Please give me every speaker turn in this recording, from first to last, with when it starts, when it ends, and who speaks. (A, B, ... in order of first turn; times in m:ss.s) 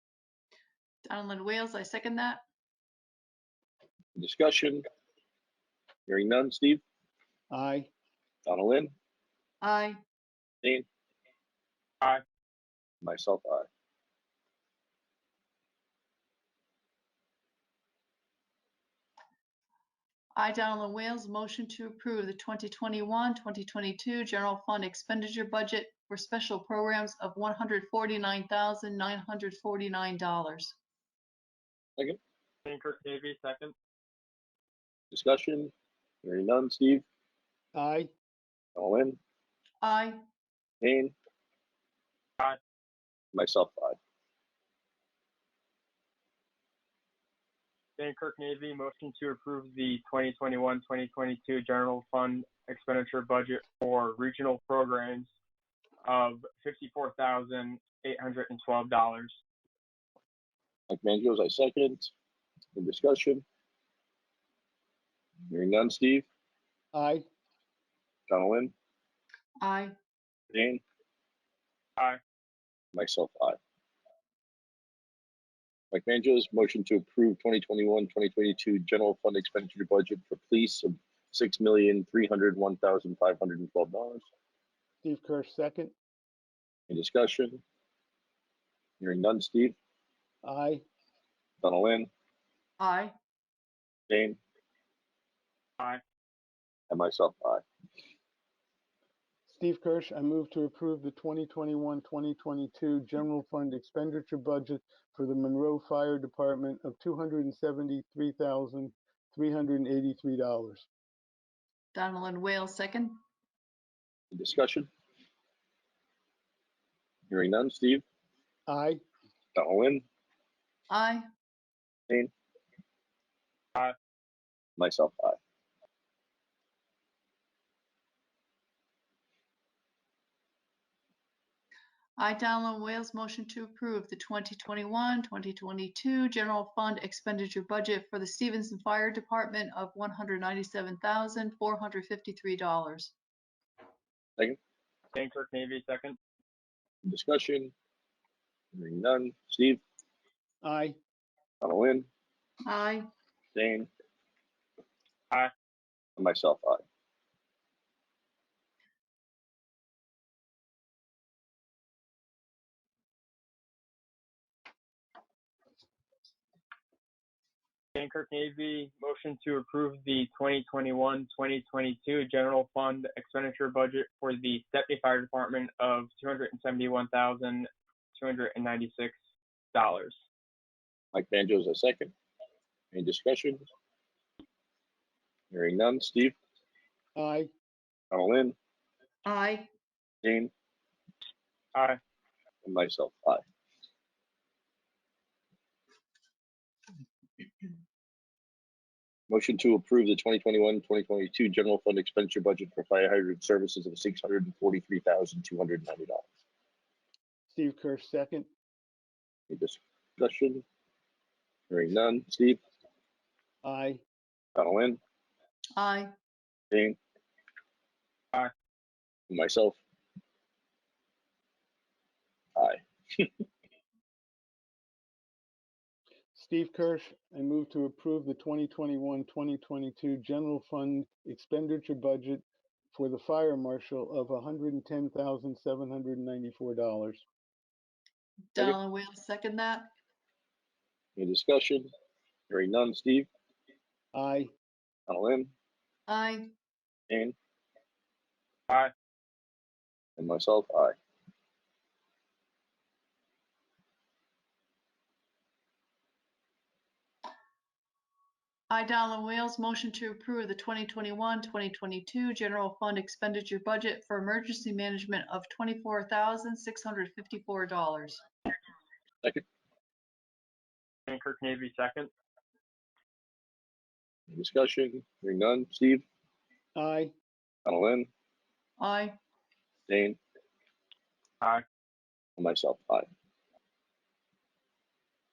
0:01.1-0:02.4 A
0:04.2-0:04.8 B
0:06.1-0:06.8 B
0:07.5-0:07.9 C
0:08.4-0:08.9 B
0:09.6-0:10.0 A
0:13.0-0:13.7 B
0:20.4-0:30.7 A
0:32.6-0:33.7 D
0:35.1-0:35.7 B
0:36.2-0:37.0 B
0:37.7-0:38.1 C
0:38.8-0:39.2 B
0:39.8-0:40.2 A
0:40.8-0:41.1 B
0:43.3-0:44.0 B
0:48.0-0:55.3 D
0:56.0-0:59.3 D
1:00.9-1:02.1 B
1:02.7-1:03.4 B
1:05.5-1:06.2 B
1:06.9-1:07.2 C
1:08.3-1:08.7 B
1:09.6-1:09.9 A
1:10.5-1:10.8 B
1:12.9-1:13.6 B
1:15.9-1:24.2 B
1:25.0-1:25.9 C
1:26.9-1:27.6 B
1:29.0-1:29.8 B
1:30.4-1:30.8 C
1:31.6-1:32.1 B
1:32.8-1:33.1 A
1:34.1-1:34.4 B
1:36.9-1:37.6 B
1:39.5-1:50.9 C
1:51.9-1:53.2 A
1:54.3-1:54.9 B
1:57.3-1:58.0 B
1:58.7-1:59.0 C
1:59.5-2:00.0 B
2:00.9-2:01.2 A
2:04.8-2:05.4 B
2:12.2-2:23.1 A
2:25.1-2:26.2 D
2:27.0-2:27.7 B
2:28.7-2:29.8 B
2:30.6-2:31.0 C
2:31.6-2:32.1 B
2:32.6-2:33.0 A
2:33.5-2:33.9 B
2:36.2-2:36.8 B
2:47.9-2:59.1 D
2:59.7-3:00.2 D
3:01.1-3:02.1 B
3:02.9-3:03.6 B
3:05.5-3:06.3 B
3:07.2-3:07.5 C
3:08.1-3:08.6 B
3:09.2-3:09.7 A
3:10.2-3:10.5 B
3:12.6-3:13.4 B
3:19.3-3:26.2 B
3:27.5-3:28.5 C
3:29.5-3:30.6 B
3:31.7-3:32.6 B
3:33.6-3:34.0 C
3:34.6-3:35.0 B
3:35.7-3:36.1 A
3:36.7-3:37.0 B
3:39.3-3:39.8 B
3:42.6-3:43.3 B
3:46.3-3:57.2 C
3:58.5-3:59.9 A
4:01.2-4:01.9 B
4:02.5-4:03.3 B
4:04.1-4:04.5 C
4:05.1-4:05.5 B
4:06.1-4:06.5 A
4:07.1-4:07.3 B
4:10.2-4:11.0 B
4:18.7-4:28.2 A
4:31.1-4:32.1 D
4:34.3-4:36.0 B
4:36.7-4:37.1 C
4:37.6-4:38.1 B
4:38.8-4:39.2 A
4:39.9-4:40.2 B
4:42.4-4:43.1 B